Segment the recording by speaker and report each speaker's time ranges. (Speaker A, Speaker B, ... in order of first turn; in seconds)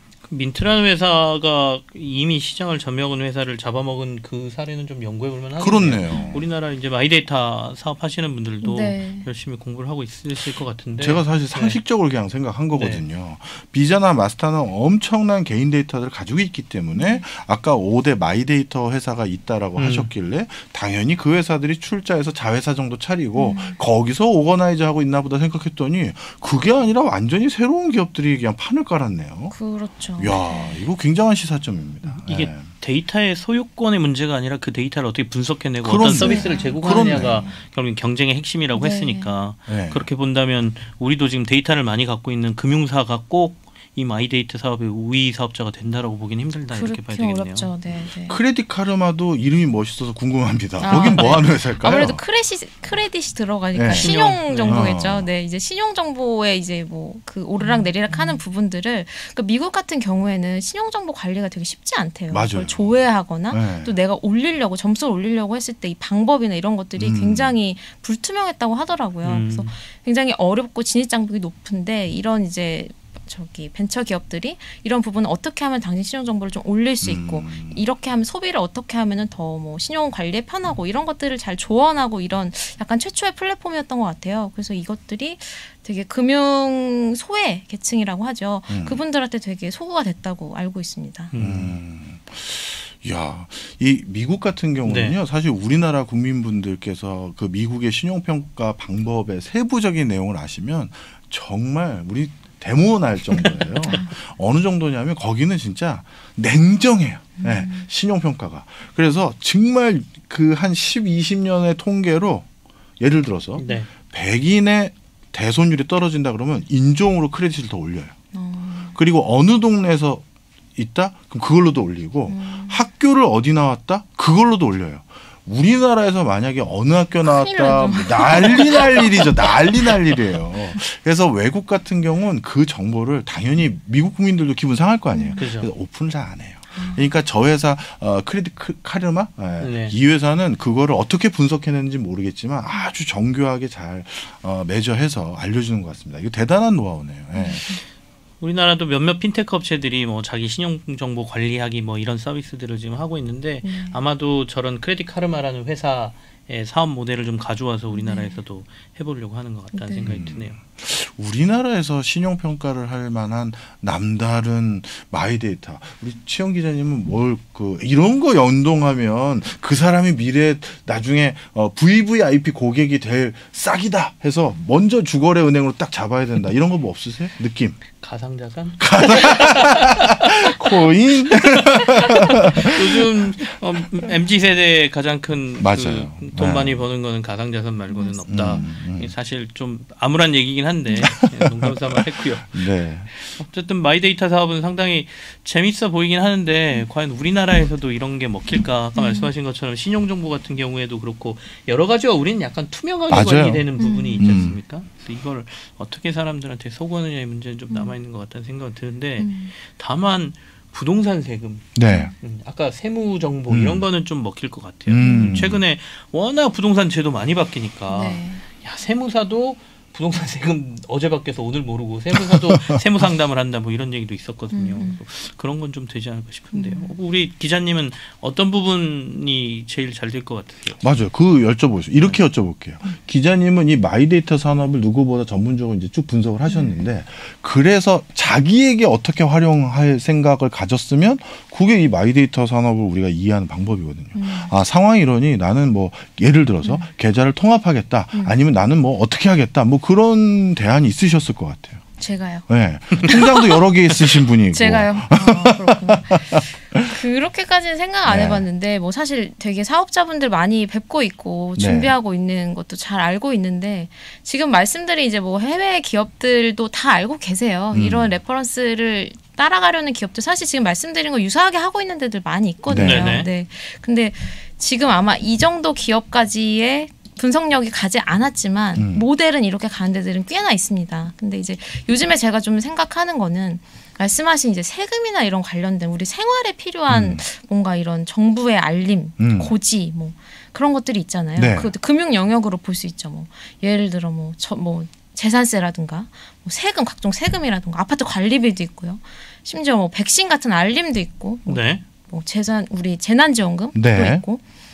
Speaker A: 0.2-11.8, 12.7-13.0, 19.8-20.1, 32.3-47.7, 50.9-51.4, 53.9-54.9, 69.2-69.7, 91.3-91.8, 94.8-95.2, 113.6-113.9, 135.4-135.7, 139.6-139.9, 148.4-160.6, 178.0-180.3, 181.4-230.8, 272.8-273.3, 301.5-301.8
Speaker B: 5.6-6.5, 11.0-29.5, 30.2-32.7, 35.8-37.5, 39.7-40.1, 48.2-52.2, 53.7-54.1, 54.6-55.3, 62.3-63.9, 67.0-67.5, 77.0-77.8, 88.7-89.0, 91.4-112.5, 113.0-118.1, 118.9-120.2, 120.8-147.8, 160.0-177.8, 178.8-183.1, 185.6-186.8, 188.3-189.1, 191.0-193.1, 203.1-203.6, 204.2-204.6, 211.7-212.1, 213.5-213.8, 214.9-215.6, 222.1-222.8, 230.8-251.8, 252.5-256.9, 258.1-258.4, 261.6-261.9, 267.7-268.1, 272.7-273.2, 278.8-279.0, 286.9-287.2, 289.2-289.5, 291.4-291.7, 303.7-304.2
Speaker C: 6.1-6.3, 8.6-9.3, 16.9-17.2, 23.4-23.8, 29.5-30.8, 36.0-37.6, 38.7-39.4, 46.7-48.4, 50.8-91.3, 103.8-104.1, 107.4-107.9, 118.3-119.0, 122.3-122.9, 127.2-129.6, 135.1-135.4, 136.7-137.1, 147.3-147.8, 153.6-154.0, 157.9-158.4, 159.7-160.2, 187.9-188.7, 198.9-199.3, 203.8-204.3, 207.7-207.9, 209.2-209.5, 211.9-212.1, 215.0-215.4, 217.9-218.4, 224.5-225.0, 226.5-226.9, 236.5-236.8, 244.1-244.5, 246.6-246.9, 252.0-253.6, 254.5-304.4